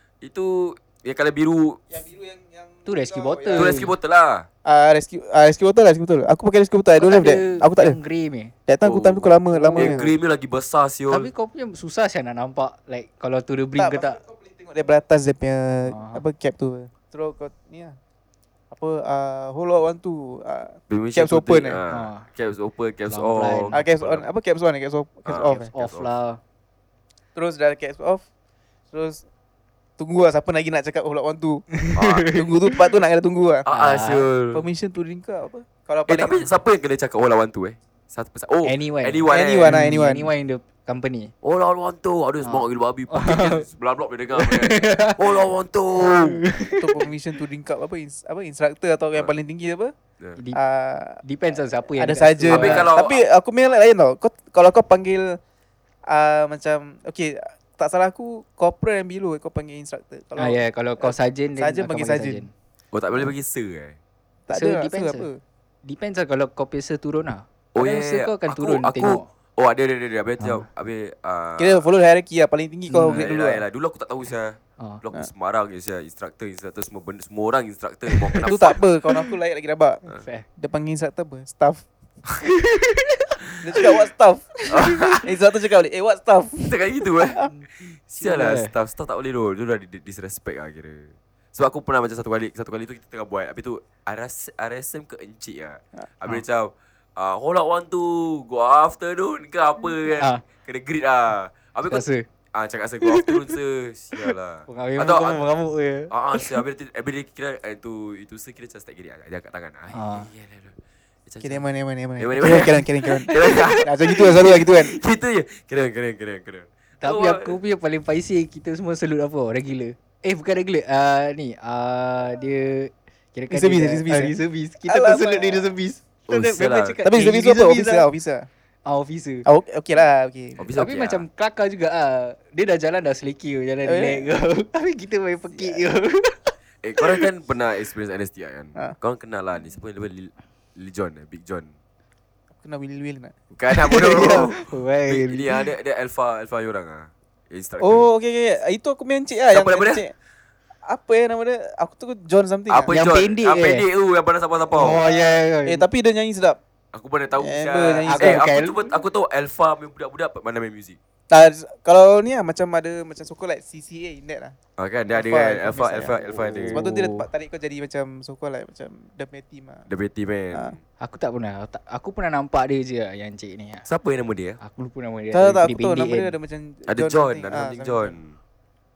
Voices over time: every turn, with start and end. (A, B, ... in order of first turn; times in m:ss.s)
0:00.2-0:01.8 A
0:01.9-0:03.8 B
0:02.9-0:03.9 C
0:03.5-0:04.4 A
0:04.6-0:08.0 B
0:07.0-0:08.5 C
0:08.7-0:10.1 B
0:08.8-0:11.3 A
0:09.5-0:10.1 C
0:11.1-0:14.2 C
0:13.8-0:18.0 B
0:15.9-0:16.2 C
0:18.7-0:21.8 B
0:20.9-0:24.2 A
0:21.9-0:22.3 C
0:23.1-0:23.8 C
0:23.7-0:25.7 B
0:25.2-0:26.1 A
0:25.4-0:26.4 C
0:27.4-0:28.2 B
0:28.9-0:29.2 B
0:30.0-0:31.7 B
0:31.8-0:32.8 C
0:31.9-0:32.3 A
0:32.3-0:33.6 B
0:33.6-0:34.6 A
0:33.7-0:34.2 C
0:34.5-0:36.5 B
0:36.1-0:39.8 A
0:38.6-0:41.3 C
0:39.3-0:40.3 B
0:41.4-0:46.4 A
0:42.4-0:43.6 C
0:44.4-0:45.3 C
0:46.0-0:47.0 C
0:46.6-0:49.9 B
0:50.5-0:51.2 B
0:51.2-0:52.9 C
0:51.9-0:55.4 B
0:52.5-0:53.2 A
0:56.1-1:02.4 B
1:00.4-1:02.5 C
1:02.9-1:04.0 A
1:04.5-1:05.4 B
1:04.5-1:05.3 C
1:05.8-1:09.2 C
1:07.7-1:11.9 A
1:10.4-1:10.6 C
1:11.6-1:13.6 B
1:12.9-1:13.2 C
1:13.1-1:18.8 A
1:18.1-1:18.6 C
1:18.4-1:20.0 B
1:20.1-1:20.4 C
1:20.6-1:21.8 B
1:22.5-1:23.9 C
1:23.6-1:24.6 B
1:24.7-1:25.3 A
1:24.7-1:25.1 C
1:25.2-1:26.7 B
1:26.6-1:45.4 A
1:27.4-1:27.6 C
1:28.2-1:28.7 C
1:40.2-1:40.4 C
1:41.9-1:42.2 C
1:43.0-1:43.4 C
1:44.2-1:46.6 C
1:46.1-1:51.6 A
1:49.9-1:50.3 C
1:51.4-1:54.9 B
1:52.2-1:57.6 A
1:53.3-1:53.8 C
1:57.0-2:08.1 C
2:03.5-2:05.8 B
2:06.3-2:07.0 A
2:07.0-2:08.5 B
2:08.9-2:09.4 C
2:09.4-2:10.6 B
2:10.6-2:11.2 A
2:10.8-2:17.2 C
2:13.8-2:14.3 B
2:15.5-2:15.8 B
2:16.8-2:21.7 A
2:22.6-2:23.3 B
2:23.5-2:28.1 A
2:23.7-2:25.6 C
2:27.8-2:30.1 B
2:29.5-2:30.0 A
2:30.9-2:32.9 B
2:32.7-2:35.0 A
2:32.9-2:33.8 C
2:34.8-2:35.9 C
2:35.6-2:36.6 B
2:36.9-2:41.0 A
2:37.4-2:38.5 B
2:38.0-2:38.9 C
2:41.3-2:44.6 B
2:44.8-2:46.8 A
2:45.1-2:49.9 B
2:46.5-2:47.2 C
2:49.9-2:50.8 A
2:51.0-2:53.9 C
2:53.9-2:54.6 A
2:54.6-2:56.3 C
2:55.3-2:58.1 B
2:56.9-2:58.4 A